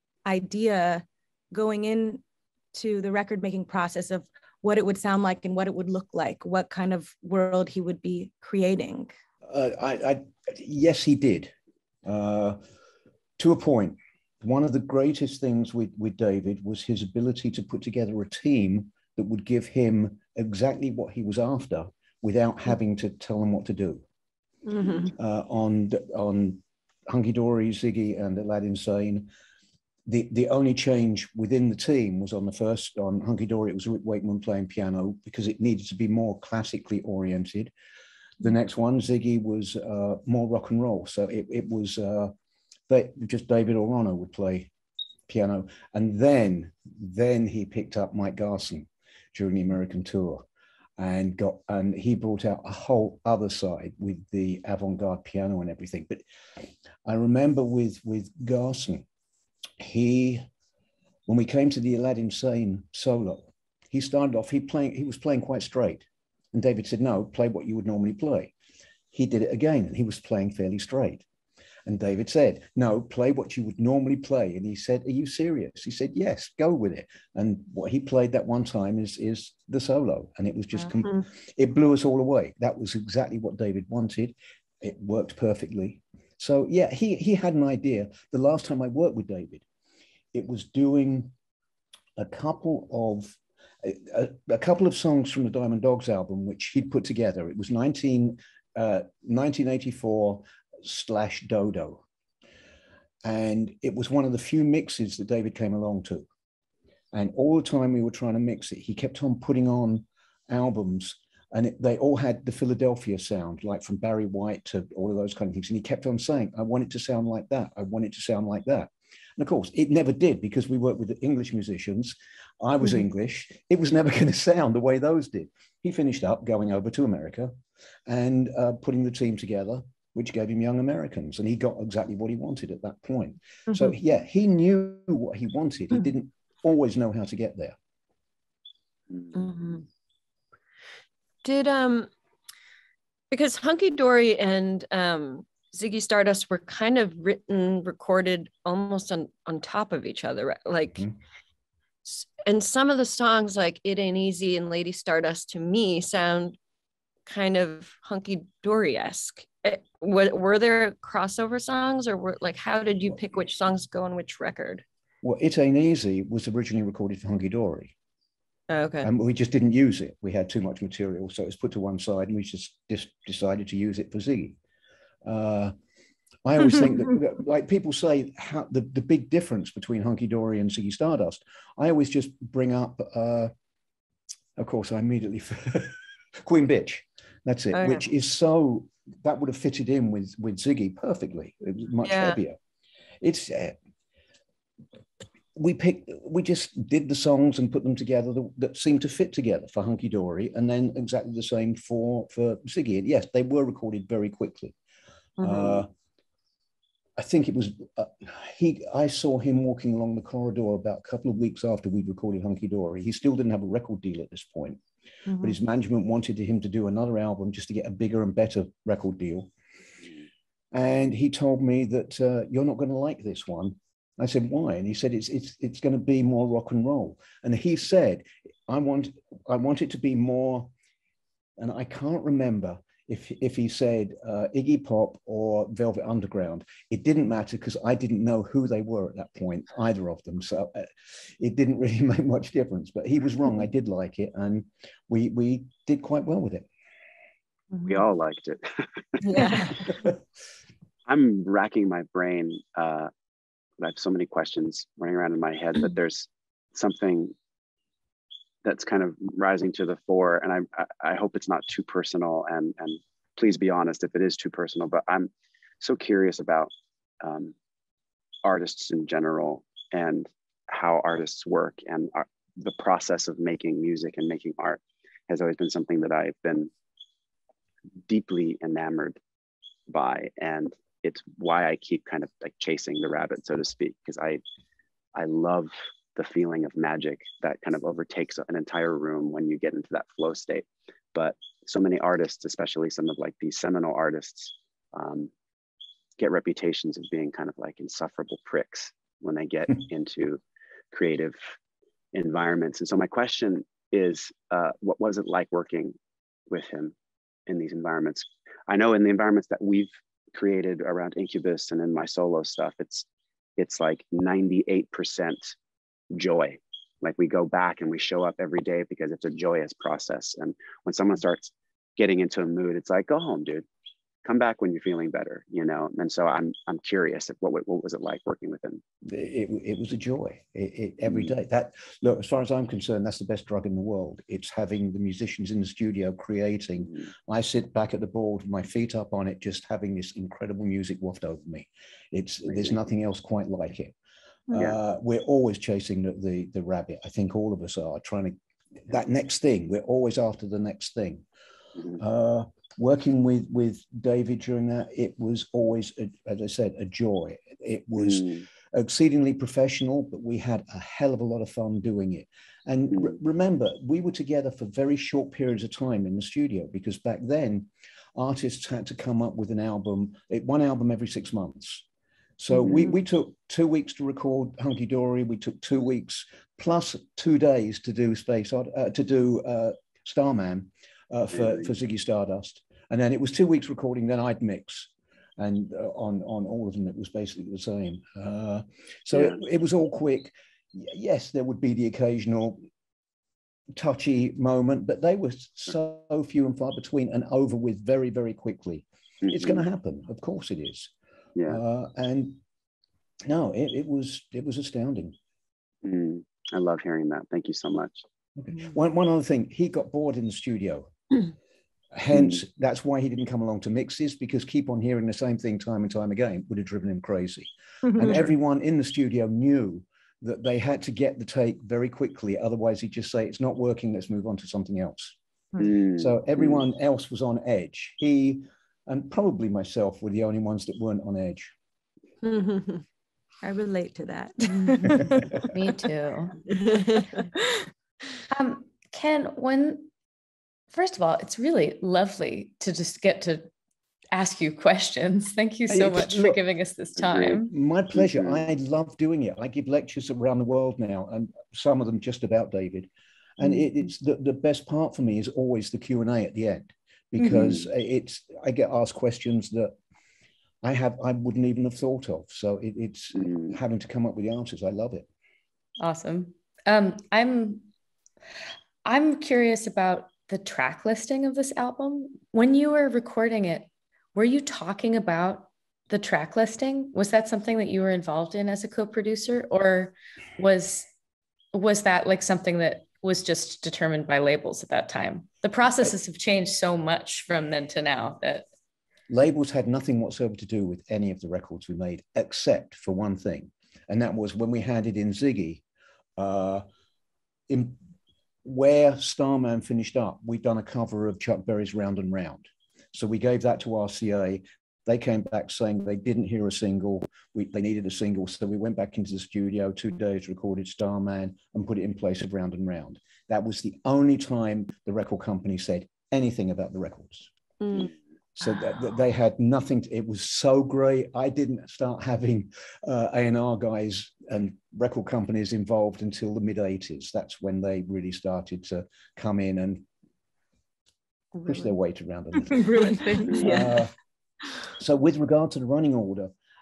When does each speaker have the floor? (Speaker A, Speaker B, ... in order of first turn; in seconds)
Speaker A: 0.2-2.2, 2.7-9.1, 433.4-435.4, 532.5-533.8
Speaker B: 9.5-11.5, 12.0-12.6, 13.4-24.0, 25.1-29.3, 30.1-37.7, 38.4-42.3, 42.9-44.7, 45.3-50.4, 51.0-56.2, 57.0-59.0, 59.8-60.4, 61.3-68.5, 69.1-71.2, 71.8-89.6, 90.3-91.3, 92.2-102.0, 103.2-106.3, 107.1-127.5, 128.1-137.8, 165.2-167.9, 169.0-174.6, 175.2-175.7, 176.4-183.5, 184.6-192.6, 193.2-193.7, 195.5-204.8, 205.4-205.9, 207.2-214.8, 215.4-219.5, 220.7-230.7, 231.6-246.7, 329.0-343.9, 344.5-351.2, 352.0-371.8, 372.4-392.6, 393.7-400.9, 401.5-402.4, 403.2-405.1, 408.4-410.9, 411.9-425.1, 425.9-431.5, 445.7-446.4, 447.4-459.7, 460.6-465.1, 489.1-495.6, 496.2-496.6, 497.5-497.8, 498.4-517.3, 518.3-529.8, 531.4-533.9, 534.7-536.3
Speaker C: 24.7-25.1, 139.3-139.8, 141.4-142.1, 143.3-151.1, 152.0-156.6, 157.2-164.8, 168.7-169.1, 187.7-188.0, 192.0-192.4, 205.4-205.8, 249.2-249.8, 432.2-432.8, 436.6-437.2, 517.6-517.9
Speaker D: 247.8-249.6, 251.1-253.1, 253.8-257.3, 258.6-265.3, 265.8-267.5, 268.4-276.7, 278.1-279.2, 279.9-284.4, 285.1-295.3, 296.2-300.4, 300.9-301.4, 302.1-305.9, 306.5-306.9, 307.5-313.1, 313.6-315.5, 316.1-323.6, 324.2-328.8, 342.5-342.7, 358.0-358.4, 399.2-399.6, 405.8-408.0, 412.1-412.4, 425.6-426.6, 447.0-447.3, 447.9-448.4, 457.4-457.7, 463.1-463.5, 533.3-533.6
Speaker E: 435.4-436.4, 438.3-439.9, 440.7-443.5, 444.1-447.5, 465.8-467.7, 468.8-480.9, 481.5-488.4